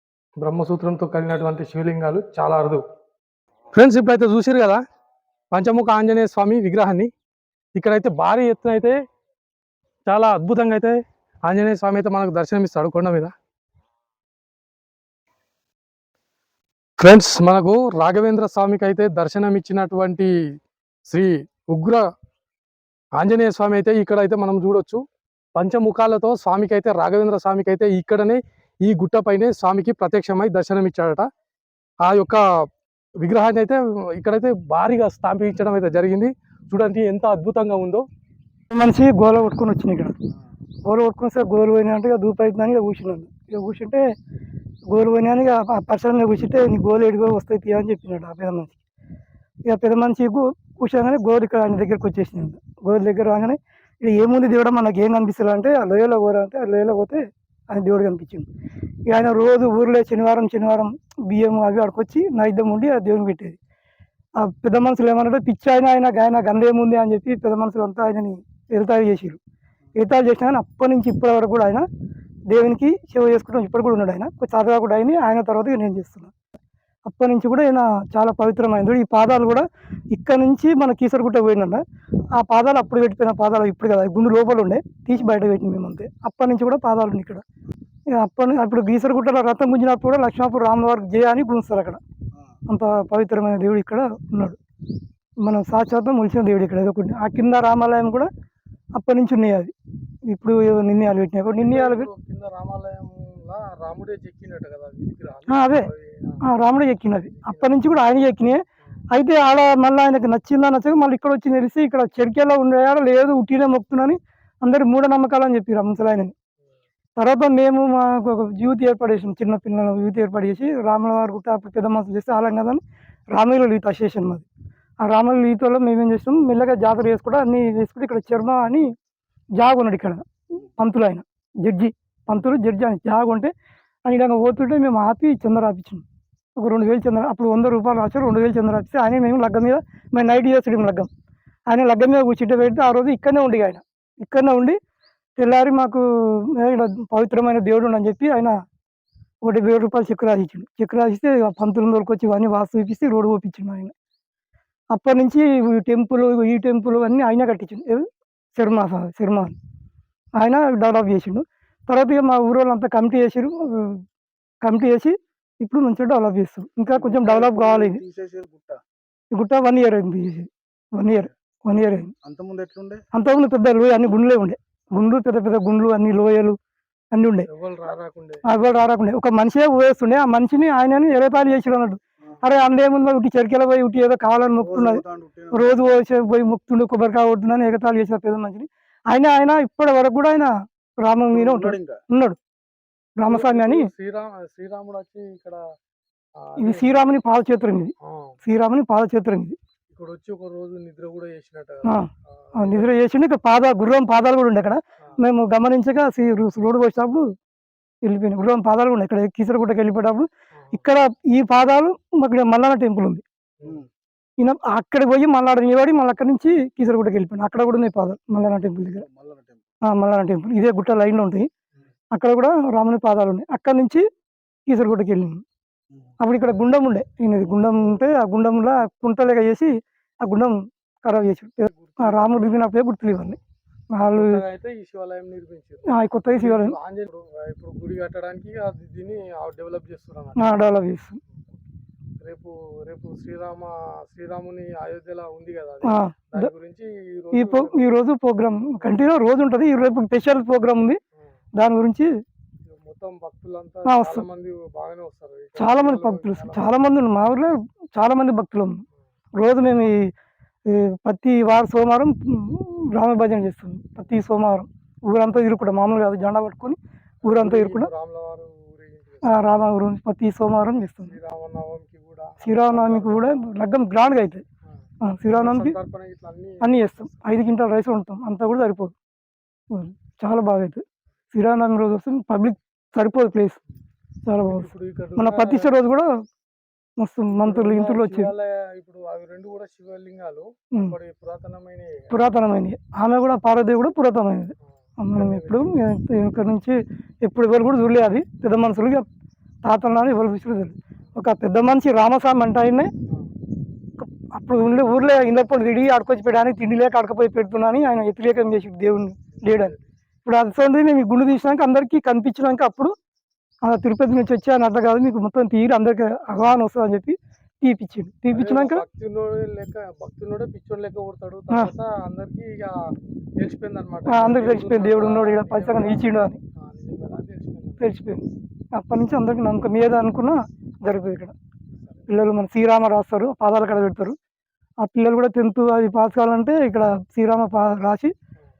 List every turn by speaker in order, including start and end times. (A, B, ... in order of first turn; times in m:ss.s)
0:00.4-0:02.8 A
0:03.7-0:04.8 A
0:05.5-0:07.1 A
0:07.8-0:09.0 A
0:10.1-0:13.3 A
0:17.0-0:20.3 A
0:21.1-0:22.0 A
0:23.2-0:25.0 A
0:25.6-0:31.3 A
0:32.0-0:32.4 A
0:33.2-0:38.0 A
0:38.7-0:40.2 B
0:40.9-0:44.0 B
0:44.9-0:48.8 B
0:49.7-0:58.5 B
0:59.1-1:03.6 B
1:04.4-1:09.4 B
1:10.0-1:11.8 B
1:12.5-1:16.3 B
1:17.0-1:21.8 B
1:22.3-1:27.4 B
1:28.1-1:32.0 B
1:32.7-1:34.6 B
1:35.4-1:38.3 B
1:39.0-1:39.7 B
1:40.3-1:42.1 B
1:41.6-1:46.4 A
1:45.5-1:45.9 B
1:46.4-1:48.6 B
1:47.3-1:48.0 A
1:49.1-1:56.3 B
1:57.2-2:02.8 B
2:03.4-2:04.5 B
2:05.0-2:08.9 B
2:09.6-2:13.5 B
2:14.1-2:16.0 B
2:16.6-2:21.1 B
2:21.7-2:24.8 B
2:25.4-2:28.5 B
2:29.5-2:33.9 B
2:34.9-2:39.6 B
2:40.4-2:44.0 B
2:44.6-2:48.0 B
2:47.1-2:48.8 C
2:49.3-2:52.1 B
2:52.2-2:53.0 C
2:53.1-2:56.6 B
2:57.1-2:57.5 B
2:57.5-2:58.4 A
2:58.5-3:10.5 B
3:04.8-3:05.6 C
3:11.0-3:12.4 B
3:11.4-3:12.0 C
3:13.2-3:13.9 B
3:13.3-3:15.6 A
3:16.4-3:17.2 A
3:16.6-3:19.6 B
3:18.0-3:18.4 A
3:19.9-3:22.9 A
3:21.9-3:27.2 B
3:28.0-3:33.2 B
3:30.6-3:30.8 A
3:33.6-3:33.9 A
3:34.4-3:39.1 B
3:39.1-3:39.6 C
3:39.9-3:41.5 B
3:42.1-3:44.0 B
3:44.7-3:45.4 B
3:46.2-3:49.7 B
3:50.2-3:53.4 B
3:51.6-3:52.6 A
3:53.9-3:54.4 B
3:54.1-4:00.5 A
3:55.9-3:56.8 B
4:00.4-4:01.2 B
4:02.2-4:07.9 A
4:05.8-4:06.5 B
4:07.3-4:11.0 B
4:08.8-4:09.0 A
4:11.6-4:12.1 B
4:12.7-4:16.8 A
4:13.9-4:14.2 B
4:15.6-4:18.8 B
4:19.4-4:20.1 B
4:20.7-4:27.9 B
4:27.2-4:29.6 A
4:29.2-4:31.1 B
4:31.1-4:33.3 A
4:32.4-4:34.4 B
4:35.0-4:35.8 B
4:35.3-4:37.4 A
4:36.6-4:39.0 B
4:39.7-4:43.6 B
4:44.3-4:46.1 B
4:44.4-4:45.7 A
4:47.0-4:48.3 B
4:47.4-4:52.2 A
4:52.1-4:59.0 B
4:55.2-4:55.8 A
4:59.6-5:02.9 B
5:04.0-5:12.9 B
5:09.4-5:09.8 A
5:13.7-5:18.8 B
5:18.3-5:22.8 A
5:23.4-5:28.0 A
5:24.1-5:26.4 B
5:27.8-5:31.3 B
5:32.1-5:34.2 B
5:34.8-5:38.1 B